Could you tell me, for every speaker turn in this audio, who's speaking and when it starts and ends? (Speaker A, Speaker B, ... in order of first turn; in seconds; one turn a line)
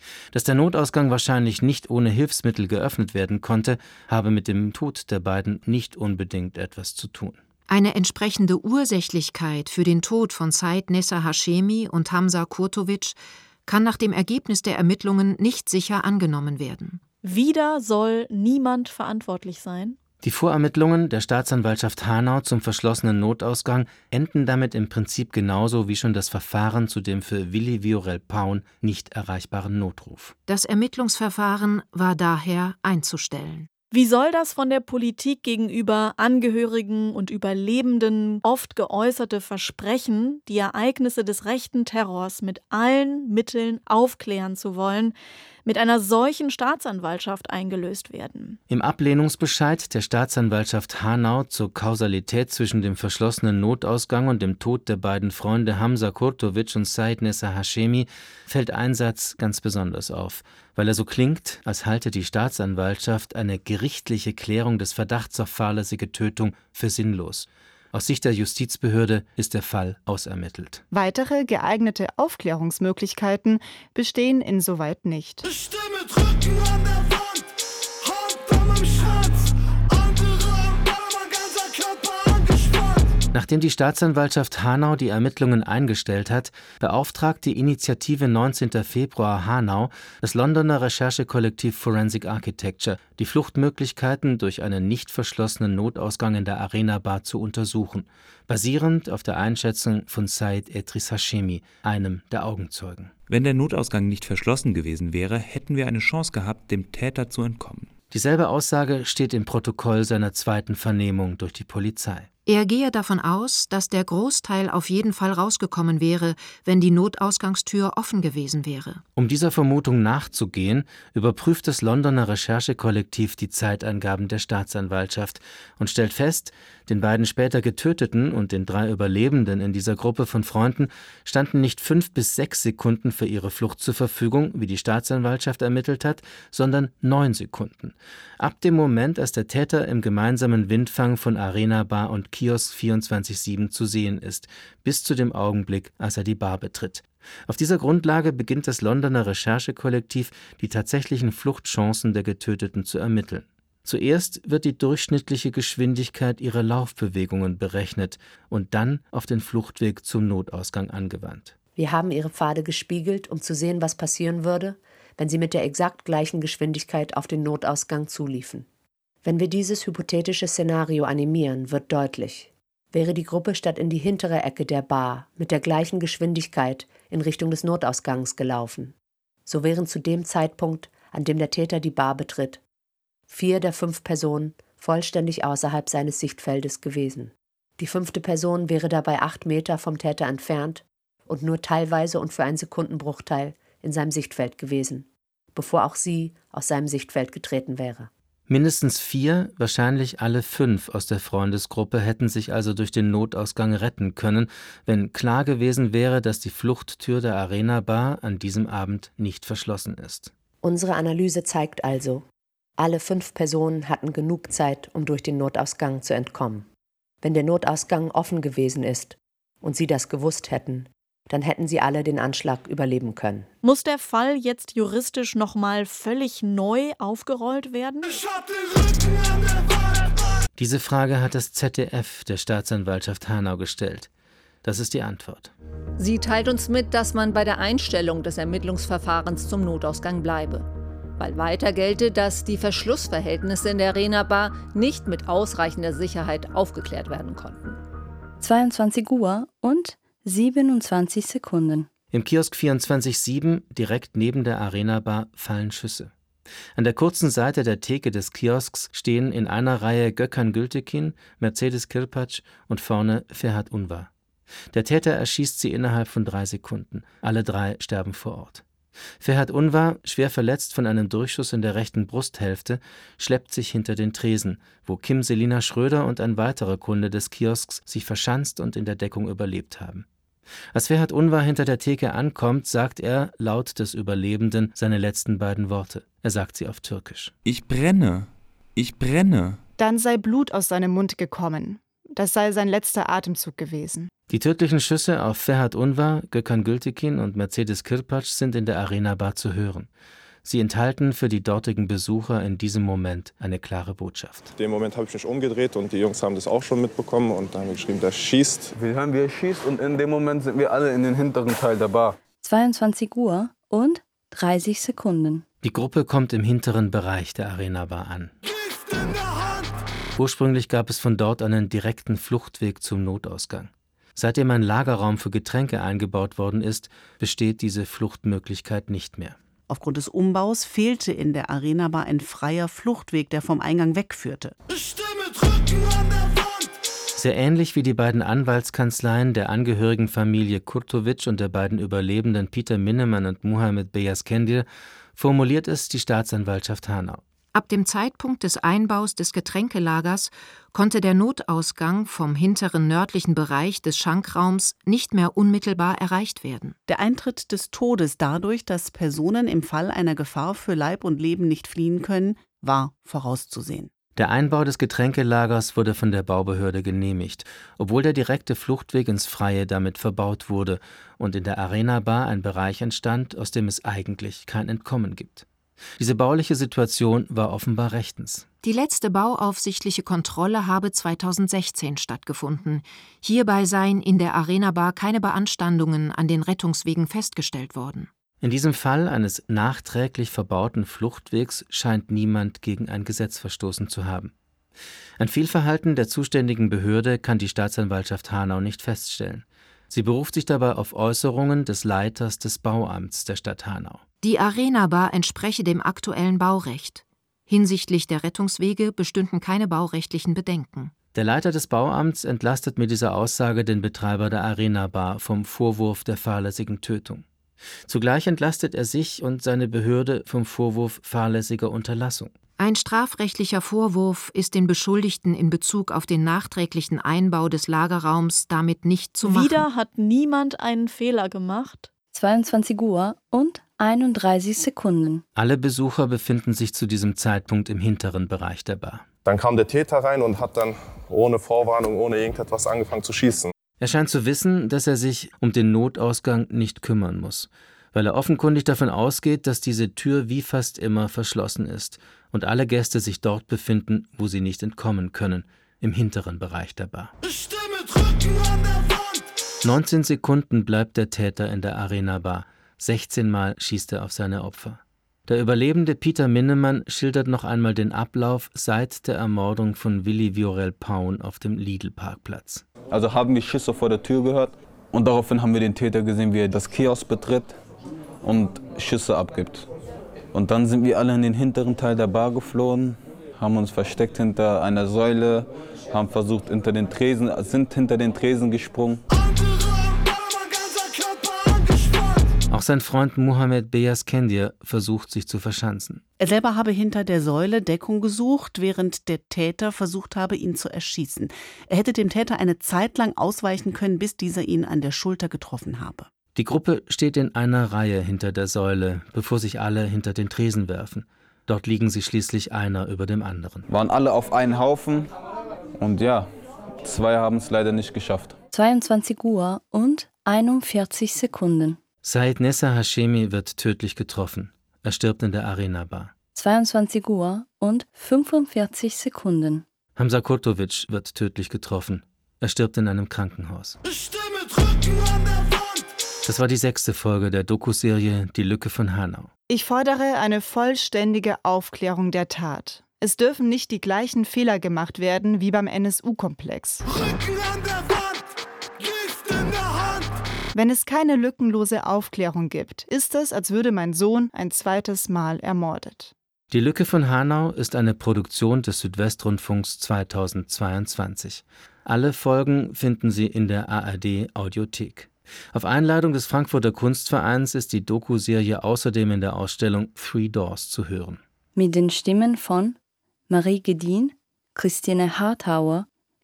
Speaker A: 0.3-7.4
Speaker B: 7.7-17.0
Speaker C: 17.2-20.0
Speaker A: 20.2-30.3
Speaker B: 30.5-33.7
Speaker C: 33.9-48.6
Speaker A: 48.7-70.8
Speaker D: 70.9-75.5
Speaker A: 83.3-103.1
Speaker E: 103.3-107.9
Speaker A: 108.1-112.3
Speaker B: 112.5-119.0
Speaker A: 119.2-161.6
Speaker F: 161.8-168.7
Speaker F: 169.2-178.9
Speaker F: 179.4-182.6
Speaker F: 183.3-198.1
Speaker A: 198.5-210.3
Speaker F: 210.6-212.2
Speaker F: 212.8-216.7
Speaker F: 217.2-223.5
Speaker C: 223.6-228.3
Speaker A: 230.6-234.1
Speaker A: 234.6-235.5
Speaker G: 236.0-247.8
Speaker H: 248.4-251.9
Speaker A: 252.1-256.1
Speaker A: 256.7-264.1
Speaker A: 264.7-268.6
Speaker A: 269.2-280.1
Speaker A: 280.7-287.3
Speaker E: 287.4-289.6
Speaker D: 289.8-294.1
Speaker A: 294.3-299.9
Speaker A: 300.4-304.5
Speaker I: 304.6-308.7
Speaker J: 308.7-312.2
Speaker H: 312.4-315.4
Speaker A: 315.6-318.3
Speaker A: 320.1-329.4
Speaker K: 329.7-334.5
Speaker A: 337.1-347.2
Speaker B: 347.5-356.8
Speaker K: 356.9-363.9
Speaker A: 364.1-375.4
Speaker A: 376.0-378.5
Speaker B: 378.6-388.1
Speaker A: 388.4-394.3
Speaker A: 395.2-404.0
Speaker B: 404.2-410.9
Speaker A: 411.1-417.2
Speaker A: 417.9-422.3
Speaker B: 422.6-429.6
Speaker C: 429.2-431.9
Speaker H: 432.1-435.2
Speaker A: 435.4-439.1
Speaker I: 439.2-443.5
Speaker A: 443.8-457.1
Speaker A: 459.6-472.6
Speaker J: 472.9-477.6
Speaker J: 478.2-479.7
Speaker J: 480.3-489.0
Speaker A: 492.5-496.0
Speaker K: 496.2-506.1
Speaker A: 506.3-513.7
Speaker J: 513.7-515.1
Speaker J: 515.8-516.3
Speaker J: 516.8-518.4
Speaker H: 518.5-521.8
Speaker A: 522.0-526.1
Speaker H: 526.3-529.6
Speaker A: 530.0-533.8
Speaker A: 536.2-539.3
Speaker D: 539.5-546.9
Speaker D: 550.5-556.1
Speaker A: 556.5-571.2
Speaker H: 571.5-572.8
Speaker H: 573.3-575.9